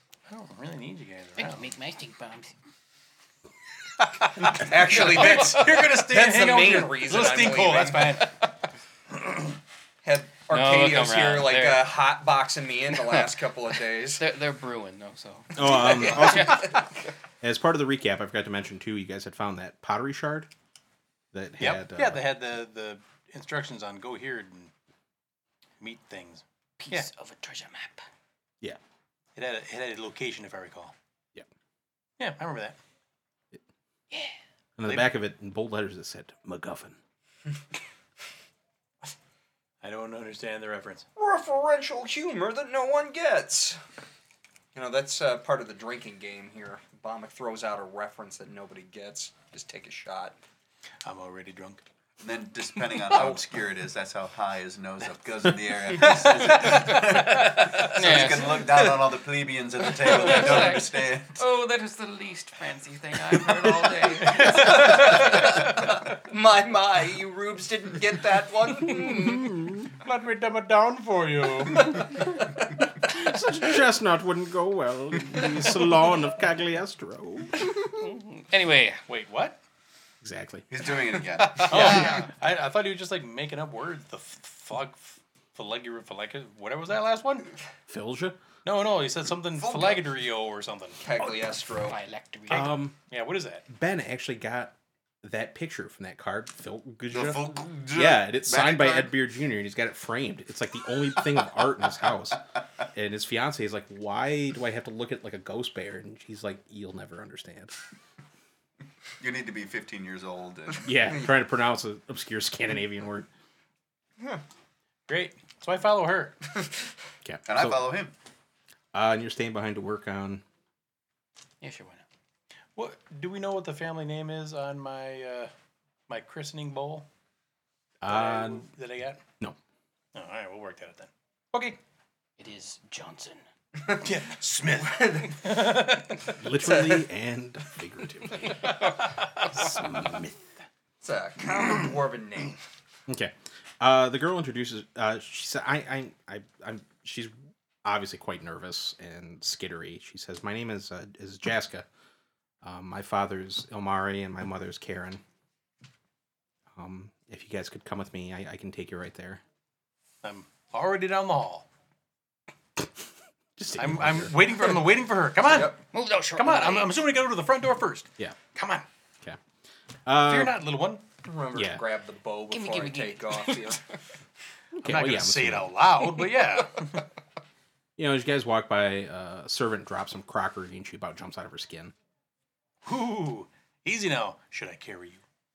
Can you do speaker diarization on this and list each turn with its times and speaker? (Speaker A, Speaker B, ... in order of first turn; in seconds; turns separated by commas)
Speaker A: 0.3-1.7, Speaker B: 1.4-2.5, Speaker A: 4.2-8.4, Speaker C: 4.5-8.2, Speaker B: 8.2-8.5, Speaker C: 10.0-14.3, Speaker B: 10.5-12.0, Speaker B: 14.2-16.9, Speaker D: 15.6-16.8, Speaker D: 17.4-20.5, Speaker D: 21.3-22.2, Speaker A: 21.6-24.7, Speaker A: 25.8-27.1, Speaker B: 26.8-28.0, Speaker A: 29.4-30.9, Speaker A: 32.2-32.8, Speaker B: 34.1-34.4, Speaker D: 34.8-37.0, Speaker A: 34.9-35.1, Speaker A: 39.8-41.1, Speaker C: 41.2-43.8, Speaker C: 44.8-50.4, Speaker A: 51.0-51.8, Speaker E: 52.2-61.5, Speaker C: 53.1-53.4, Speaker A: 56.0-57.2, Speaker B: 56.1-58.9, Speaker B: 59.8-65.6, Speaker A: 64.2-65.7, Speaker C: 66.2-69.5, Speaker A: 70.0-72.1, Speaker C: 71.7-72.8, Speaker D: 73.0-77.7, Speaker B: 77.9-79.0, Speaker A: 79.1-79.6, Speaker D: 80.2-80.7, Speaker E: 80.7-81.9, Speaker A: 81.4-87.5, Speaker D: 87.9-88.4, Speaker A: 88.7-91.0, Speaker E: 89.6-90.1, Speaker C: 91.0-92.0, Speaker B: 91.8-92.7, Speaker D: 92.5-92.9, Speaker A: 92.5-93.7, Speaker D: 93.7-107.7, Speaker E: 97.1-99.1, Speaker E: 109.2-110.9, Speaker D: 110.8-113.3, Speaker A: 115.1-116.4, Speaker D: 117.2-118.0, Speaker E: 117.5-118.1, Speaker D: 118.9-120.4, Speaker B: 121.6-122.0, Speaker A: 122.8-125.5, Speaker A: 126.1-127.1, Speaker D: 128.0-128.7, Speaker A: 128.1-129.2, Speaker A: 130.1-131.8, Speaker B: 132.4-133.4, Speaker A: 134.0-136.3, Speaker C: 135.0-135.5, Speaker D: 136.4-138.7, Speaker C: 136.6-137.1, Speaker D: 139.5-140.5, Speaker C: 141.0-142.6, Speaker D: 143.1-147.3, Speaker D: 147.8-151.9, Speaker D: 152.6-155.2, Speaker D: 156.8-159.4, Speaker A: 160.2-161.7, Speaker D: 163.6-164.8, Speaker A: 163.8-165.8, Speaker B: 165.9-167.0, Speaker A: 166.3-168.8, Speaker D: 170.1-170.6, Speaker A: 170.2-171.0, Speaker C: 171.2-173.8, Speaker D: 171.5-171.8, Speaker B: 172.5-173.8, Speaker D: 174.8-175.8, Speaker A: 174.8-177.1, Speaker D: 178.0-181.9, Speaker A: 182.8-185.2